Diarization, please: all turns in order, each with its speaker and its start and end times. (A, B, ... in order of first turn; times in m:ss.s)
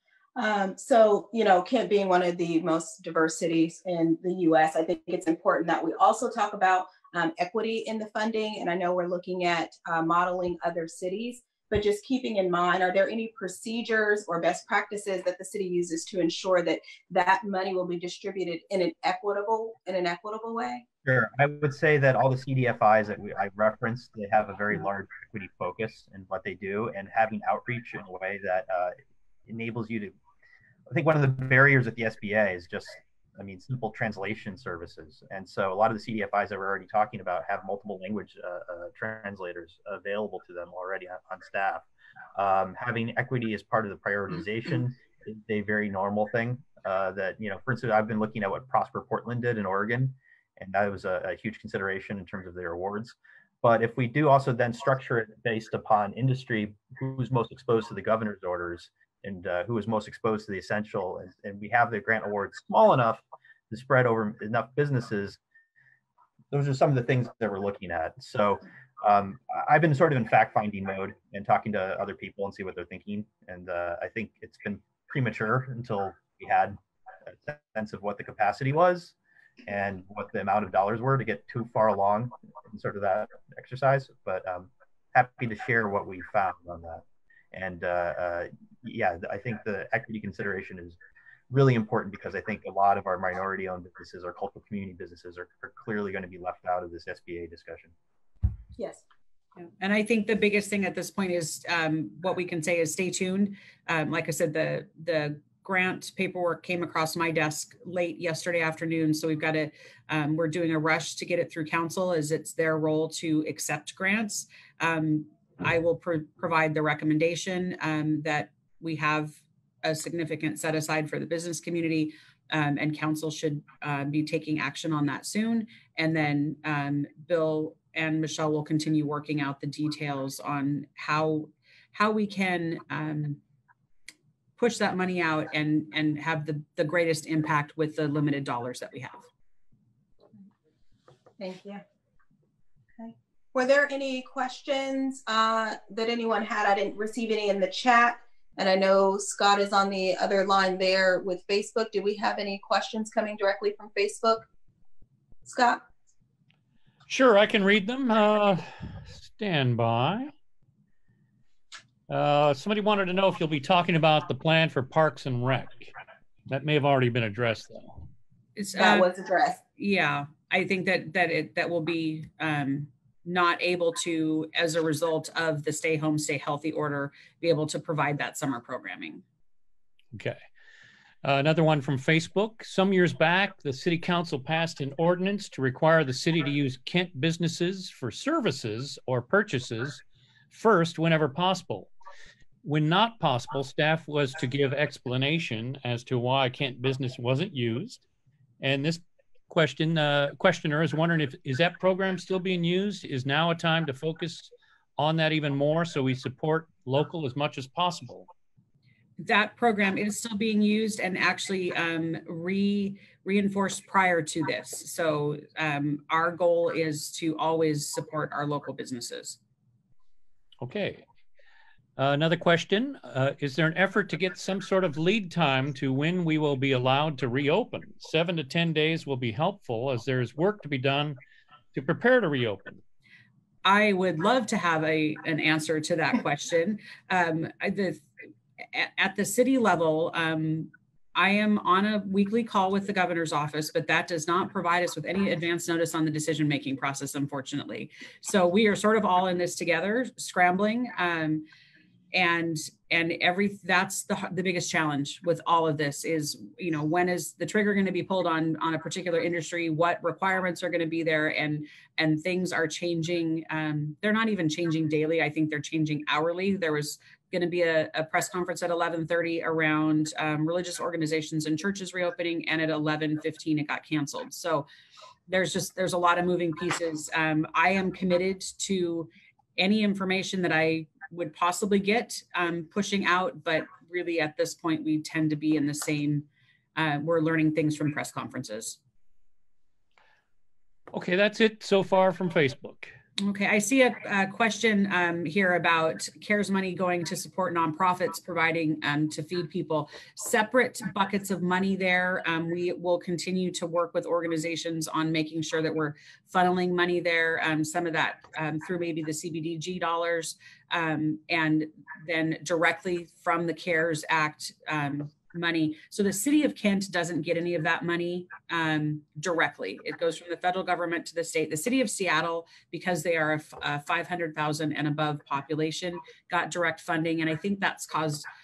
0:00.4-0:20.8 A
0:21.0-0:29.0 B
0:29.5-0:30.2 B
0:30.9-1:05.4 B
1:06.5-1:19.2 B
1:19.7-1:31.0 B
1:31.5-1:37.9 B
1:38.8-1:39.0 A
1:39.8-2:13.4 C
2:14.6-2:19.2 C
2:21.4-2:21.8 A
2:23.0-2:34.4 A
2:35.4-2:35.8 A
2:37.1-2:40.3 D
2:42.1-2:45.9 D
2:46.5-2:48.0 D
2:48.6-2:49.1 C
2:48.8-2:49.6 A
2:49.8-2:59.2 C
3:00.1-3:00.4 D
3:01.2-3:11.9 D
3:12.6-3:18.0 D
3:18.6-3:28.3 D
3:29.2-3:39.4 C
3:40.6-3:41.0 D
3:42.0-3:51.2 D
3:51.7-3:52.8 D
3:53.6-3:58.1 C
3:58.7-4:11.5 C
4:12.1-4:34.7 C
4:35.3-4:48.8 C
4:50.9-4:53.0 D
4:53.2-5:28.3 C